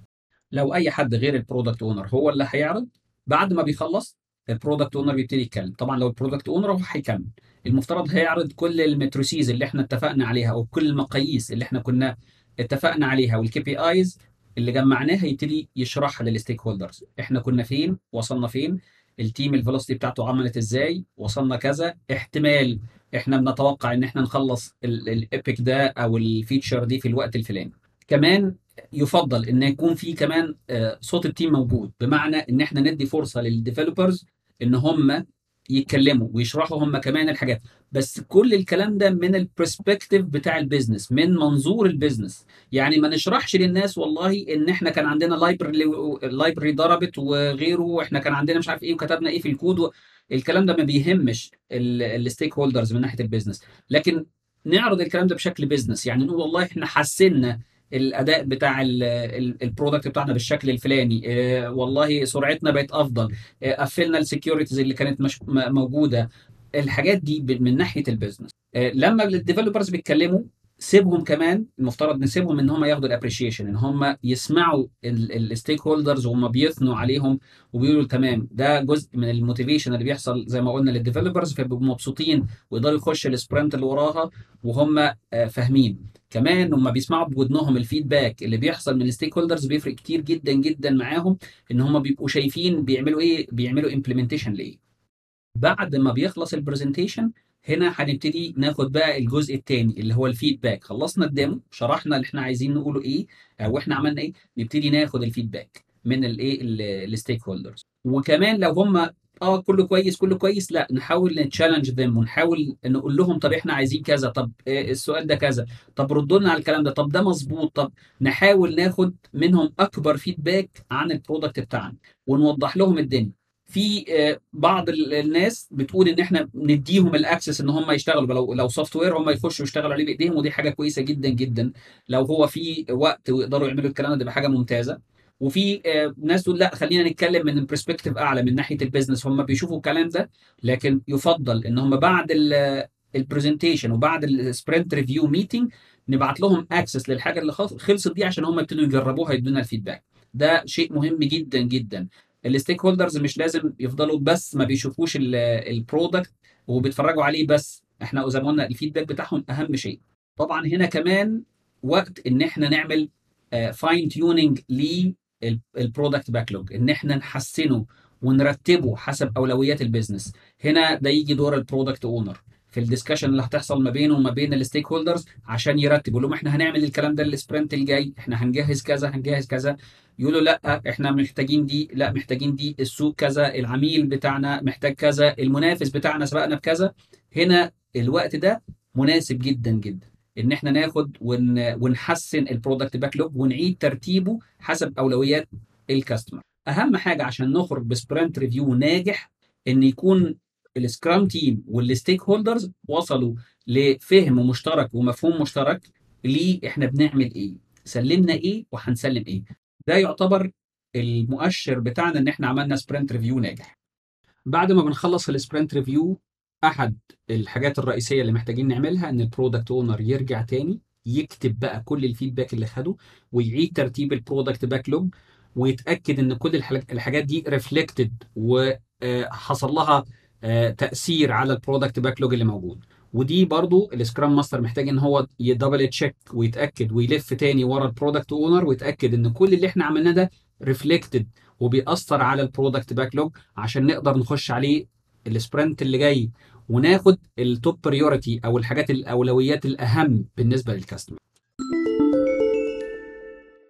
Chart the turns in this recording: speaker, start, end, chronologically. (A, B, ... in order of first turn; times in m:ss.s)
0:00.5-0:35.2 A
0:35.7-1:06.3 A
1:06.8-1:34.8 A
1:35.6-3:33.7 A
3:34.5-4:11.2 A